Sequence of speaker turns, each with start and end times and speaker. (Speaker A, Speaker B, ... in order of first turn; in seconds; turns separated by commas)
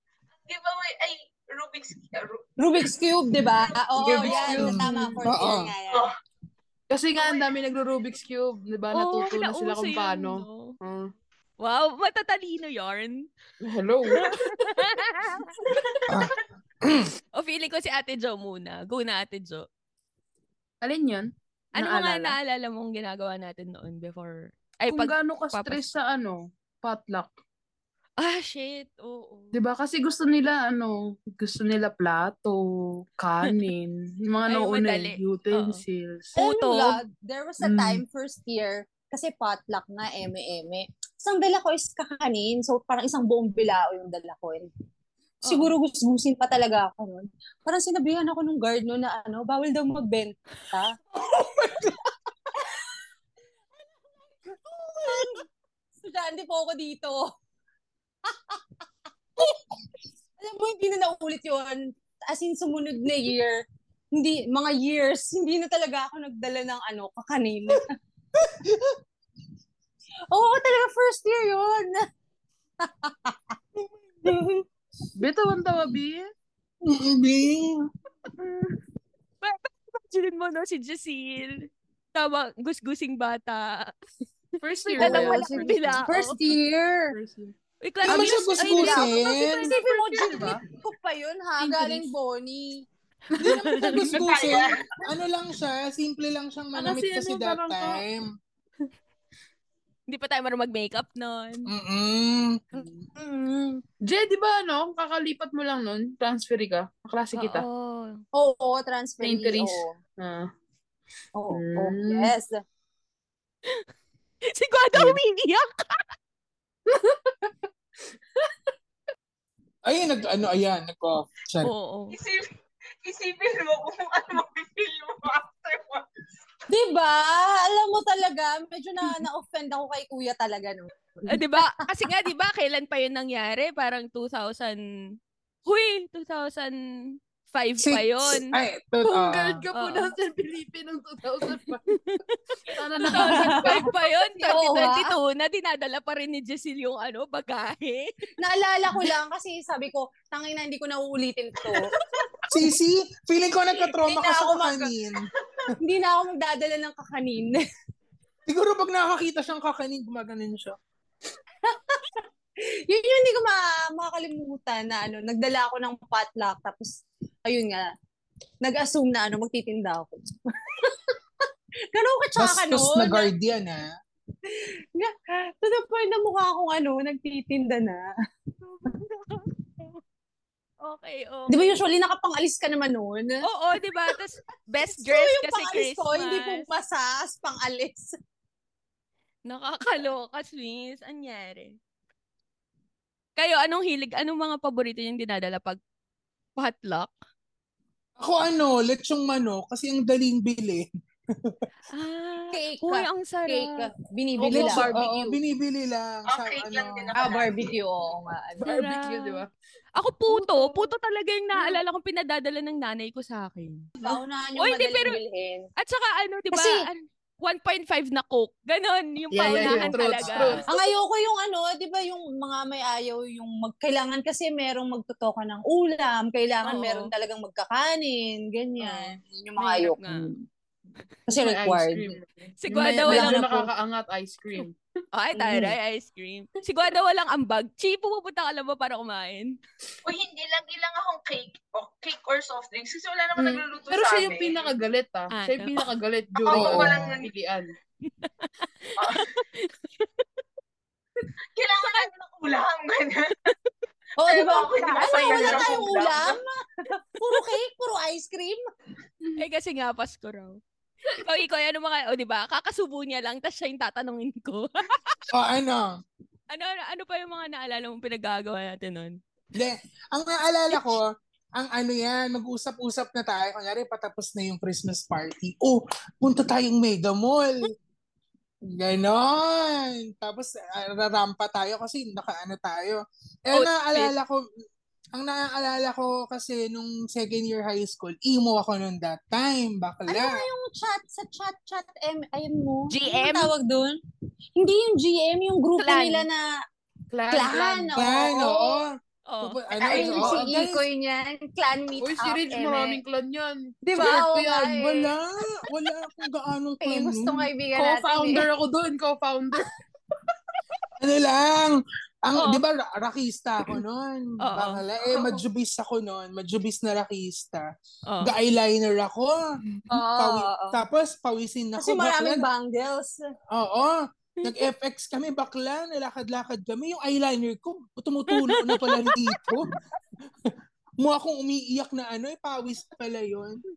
Speaker A: 0.5-2.9, Speaker B: 2.6-6.1, Speaker A: 3.6-4.7, Speaker C: 4.1-5.7, Speaker D: 4.3-5.3, Speaker A: 5.4-6.2, Speaker D: 6.9-11.1, Speaker E: 8.9-10.8, Speaker E: 11.6-13.3, Speaker D: 13.6-14.7, Speaker E: 14.2-15.6, Speaker D: 15.6-16.1, Speaker A: 15.7-16.3, Speaker C: 16.1-17.1, Speaker E: 17.4-19.7, Speaker D: 20.8-22.4, Speaker E: 21.8-25.9, Speaker D: 24.9-27.3, Speaker E: 28.2-29.6, Speaker D: 29.5-36.4, Speaker E: 34.5-35.8, Speaker E: 36.4-37.0, Speaker B: 36.4-44.7, Speaker D: 37.6-38.0, Speaker E: 45.4-45.7, Speaker B: 45.5-51.0, Speaker C: 51.4-51.9, Speaker B: 55.0-55.4, Speaker B: 56.0-57.3, Speaker B: 58.3-58.6, Speaker B: 60.4-63.6, Speaker B: 64.1-68.0, Speaker C: 68.4-69.0, Speaker B: 70.3-72.0, Speaker B: 72.8-73.5, Speaker C: 73.8-74.3, Speaker B: 74.2-74.6, Speaker D: 75.2-76.3, Speaker C: 76.8-77.9, Speaker E: 79.4-83.9, Speaker D: 84.6-86.1, Speaker E: 84.9-86.3, Speaker B: 85.0-87.1, Speaker D: 87.1-87.5, Speaker E: 87.8-90.5, Speaker C: 88.1-89.8, Speaker B: 88.1-92.9, Speaker D: 90.0-90.6, Speaker D: 91.6-92.1, Speaker D: 93.3-94.3, Speaker C: 93.4-98.3, Speaker E: 93.4-94.0, Speaker A: 94.1-94.9, Speaker D: 96.7-98.0, Speaker E: 100.1-101.7, Speaker C: 101.7-102.9, Speaker B: 102.8-103.8, Speaker D: 104.0-107.7, Speaker E: 107.3-108.2, Speaker B: 108.3-109.9, Speaker D: 109.2-110.5, Speaker B: 111.3-112.6, Speaker D: 111.5-112.3, Speaker E: 114.5-116.1, Speaker D: 116.9-117.5, Speaker C: 119.9-121.7, Speaker E: 121.6-122.2, Speaker A: 122.1-122.5, Speaker A: 123.0-126.1, Speaker B: 126.7-131.4, Speaker E: 131.3-134.8, Speaker E: 135.7-138.6, Speaker C: 137.8-139.6, Speaker D: 139.0-141.8, Speaker E: 139.7-140.1, Speaker E: 141.9-148.1, Speaker D: 142.7-143.9, Speaker B: 143.2-145.2, Speaker B: 148.4-151.9, Speaker E: 151.9-152.3, Speaker C: 152.5-155.3, Speaker B: 154.1-154.9, Speaker B: 155.8-157.6, Speaker C: 158.5-160.8, Speaker B: 161.6-167.9, Speaker B: 168.6-171.1, Speaker B: 171.9-173.3, Speaker C: 172.4-173.9, Speaker B: 174.5-178.1, Speaker E: 178.6-180.0, Speaker E: 180.8-181.8, Speaker B: 181.5-183.4, Speaker E: 183.4-186.7, Speaker B: 184.8-188.2, Speaker E: 189.5-191.8, Speaker E: 193.4-195.8, Speaker E: 196.6-197.1, Speaker C: 198.2-201.6, Speaker E: 201.9-203.8, Speaker B: 202.5-204.9, Speaker D: 204.4-205.4, Speaker C: 204.5-207.3, Speaker A: 206.3-207.7, Speaker B: 207.2-208.7, Speaker D: 208.6-209.5, Speaker E: 208.7-209.4, Speaker E: 210.0-213.9, Speaker D: 210.3-210.9, Speaker B: 214.0-215.7, Speaker E: 214.6-215.2, Speaker E: 215.8-220.6, Speaker B: 216.5-216.9, Speaker D: 219.3-220.7, Speaker B: 219.5-219.9, Speaker B: 220.7-230.1, Speaker E: 226.6-227.1, Speaker E: 228.8-230.3, Speaker B: 231.3-232.2, Speaker D: 231.3-234.8, Speaker E: 232.6-233.6, Speaker B: 233.1-233.6, Speaker E: 234.6-239.6, Speaker A: 240.0-244.7, Speaker D: 243.4-247.7, Speaker E: 245.3-245.9, Speaker A: 246.4-247.3, Speaker C: 246.5-247.1, Speaker E: 248.1-250.2, Speaker A: 249.0-249.3, Speaker A: 251.6-253.4, Speaker E: 251.8-252.1, Speaker B: 254.2-258.6, Speaker A: 254.3-256.4, Speaker E: 254.8-255.8, Speaker E: 259.4-265.2, Speaker C: 265.3-266.0, Speaker E: 266.5-269.2, Speaker C: 269.6-277.7, Speaker E: 270.7-271.0, Speaker C: 278.8-284.4, Speaker E: 283.5-284.1, Speaker C: 285.1-290.4, Speaker B: 290.1-294.0, Speaker E: 292.9-293.5, Speaker B: 294.6-296.5, Speaker E: 295.8-296.3, Speaker D: 297.1-298.0, Speaker B: 297.3-298.8, Speaker C: 297.9-300.8, Speaker E: 299.3-300.4, Speaker B: 299.8-303.0, Speaker D: 302.0-304.8, Speaker B: 303.9-305.1, Speaker C: 304.7-307.5, Speaker B: 306.8-308.5, Speaker D: 307.7-309.7, Speaker C: 311.0-317.7, Speaker E: 312.4-312.6, Speaker E: 314.4-314.8, Speaker E: 318.1-318.4, Speaker C: 318.2-322.4, Speaker B: 319.9-320.8, Speaker B: 321.8-323.2, Speaker C: 323.5-329.7, Speaker E: 328.3-329.4, Speaker C: 330.4-333.6